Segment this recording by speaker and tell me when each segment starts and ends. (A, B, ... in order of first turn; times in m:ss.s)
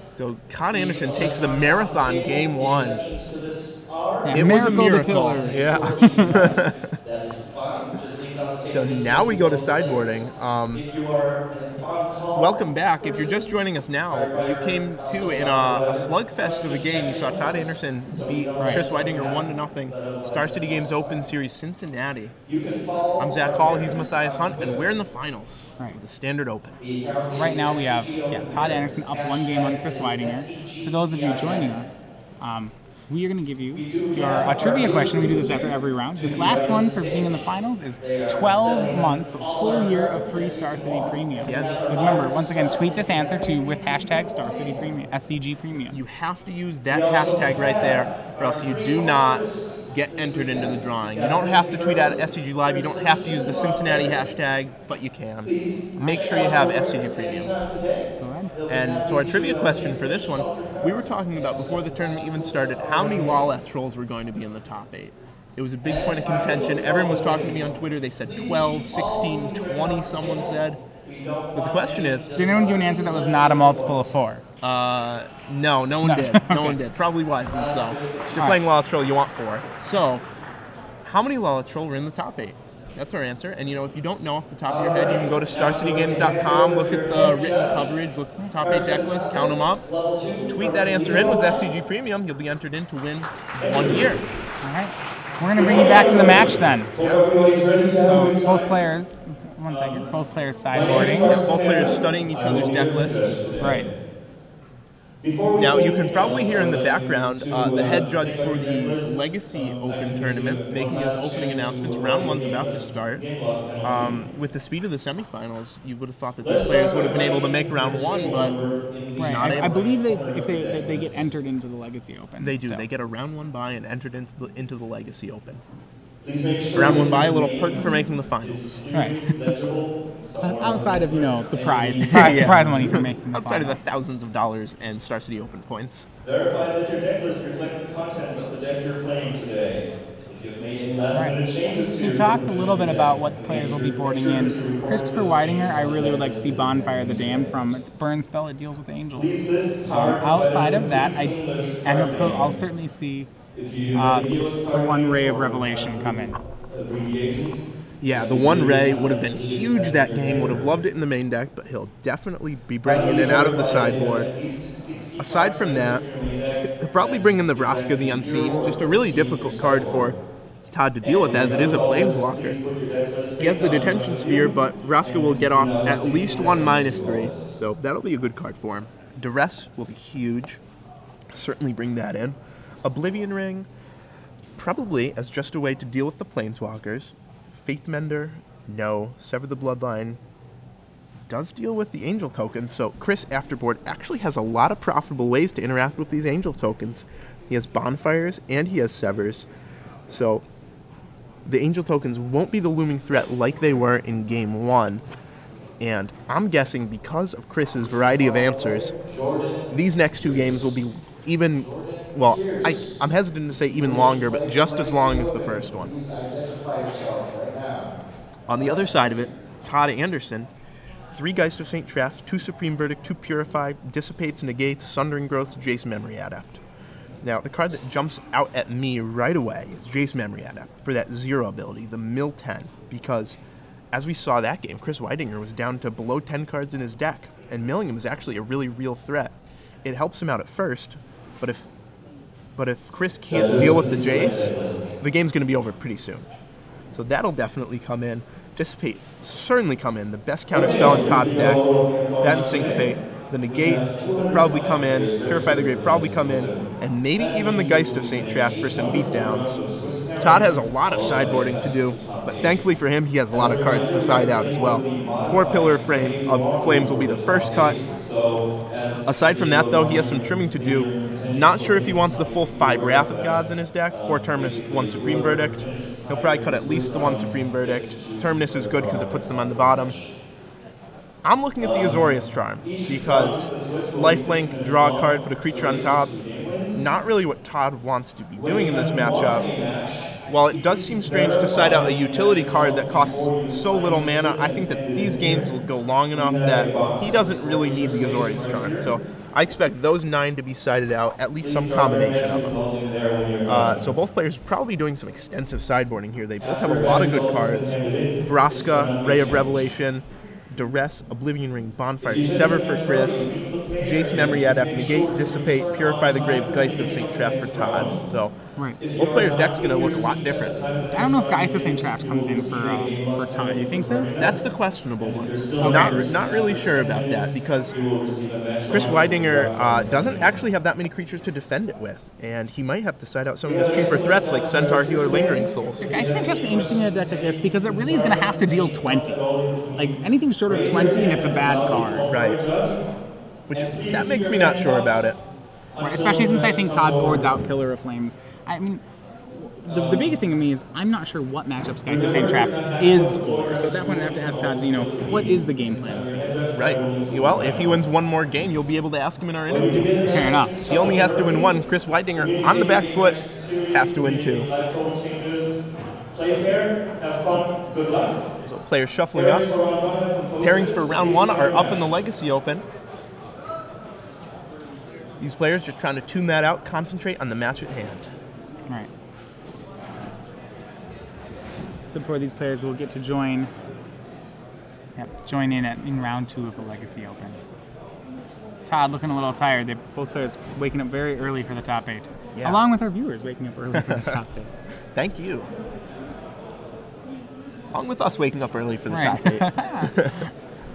0:00.1-0:03.0 A
0:00.7-0:13.5 B
0:04.2-0:06.6 C
0:04.3-0:07.0 A
0:08.7-0:10.8 A
0:12.3-0:22.3 A
0:14.1-0:21.2 B
0:22.4-0:25.0 B
0:23.2-0:26.8 A
0:26.8-0:31.7 B
0:27.3-0:46.0 C
0:33.7-0:37.4 B
0:38.0-0:44.8 B
0:41.4-0:41.9 A
0:45.9-0:57.5 A
0:46.9-0:54.3 B
0:55.4-1:03.5 B
0:58.2-0:58.5 C
0:58.7-1:10.8 A
1:05.8-1:14.1 B
1:11.5-1:12.4 A
1:12.3-1:14.4 C
1:14.6-1:20.2 A
1:16.0-1:16.8 C
1:17.4-1:18.5 B
1:21.0-1:29.8 A
1:24.6-1:27.9 B
1:28.5-1:31.6 B
1:30.5-1:34.2 A
1:33.6-1:34.2 B
1:34.6-1:36.9 C
1:35.6-1:38.7 B
1:37.0-1:37.2 A
1:38.0-1:41.4 C
1:39.7-1:40.0 B
1:40.7-1:43.8 B
1:41.1-1:43.4 A
1:43.6-1:43.9 C
1:45.2-1:54.2 B
1:45.6-1:53.2 A
1:53.8-1:58.6 A
1:56.4-2:01.2 B
1:59.2-2:02.9 C
1:59.2-1:59.7 A
2:02.4-2:05.6 A
2:06.2-2:13.0 B
2:06.7-2:08.8 A
2:08.9-2:09.5 C
2:10.4-2:13.9 C
2:12.1-2:16.1 A
2:16.2-2:27.6 B
2:21.1-2:33.3 C
2:29.2-2:32.6 B
2:33.5-2:40.6 B
2:33.9-2:36.4 C
2:38.0-2:44.3 A
2:42.8-2:50.1 B
2:45.2-2:46.0 A
2:46.6-2:50.2 A
2:50.7-2:52.6 A
2:51.0-2:57.5 B
2:53.4-3:00.6 A
3:01.3-3:03.7 A
3:04.6-3:10.2 A
3:11.3-3:19.5 A
3:20.1-3:20.4 A
3:21.4-3:25.0 A
3:25.8-3:28.9 A
3:28.2-3:29.7 B
3:29.7-3:35.9 A
3:30.3-3:30.6 B
3:31.6-3:32.9 B
3:33.8-3:37.9 B
3:38.5-3:40.5 A
3:41.1-3:46.6 A
3:47.2-3:53.4 A
3:53.9-4:01.6 A
4:02.6-4:06.3 A
4:03.3-4:04.9 B
4:06.9-4:11.6 A
4:10.5-4:12.8 B
4:12.2-4:19.6 A
4:13.5-4:22.6 B
4:20.2-4:27.8 A
4:23.3-4:40.0 B
4:29.0-4:40.0 A
4:41.2-4:46.1 A
4:41.6-4:46.8 B
4:46.7-4:49.5 A
4:48.4-4:55.5 B
4:50.3-5:02.6 A
4:56.1-4:58.9 B
5:01.4-5:03.8 B
5:03.4-5:18.4 A
5:06.4-5:09.6 B
5:12.0-5:18.0 B
5:18.6-5:18.8 C
5:18.8-5:30.4 B
5:18.9-5:20.6 A
5:20.9-5:24.1 C
5:24.2-5:27.8 A
5:25.6-5:26.0 C
5:28.7-5:36.0 A
5:33.4-5:42.8 B
5:35.8-5:42.1 C
5:42.1-5:42.4 A
5:43.5-5:45.2 A
5:43.5-5:44.9 B
5:45.7-5:47.3 B
5:45.8-5:56.5 C
5:49.7-5:50.1 B
5:51.8-5:57.8 B
5:56.5-6:04.5 A
5:59.5-6:01.6 B
6:00.0-6:00.6 C
6:02.2-6:05.6 B
6:06.1-6:08.2 B
6:08.4-6:09.6 A
6:09.1-6:11.8 B
6:10.4-6:12.6 A
6:15.2-6:18.1 A
6:21.9-6:23.5 C
6:25.0-6:27.4 C
6:28.6-6:34.5 C
6:33.8-6:34.1 A
6:34.9-6:35.5 A
6:37.7-6:40.2 A
6:38.9-6:40.1 C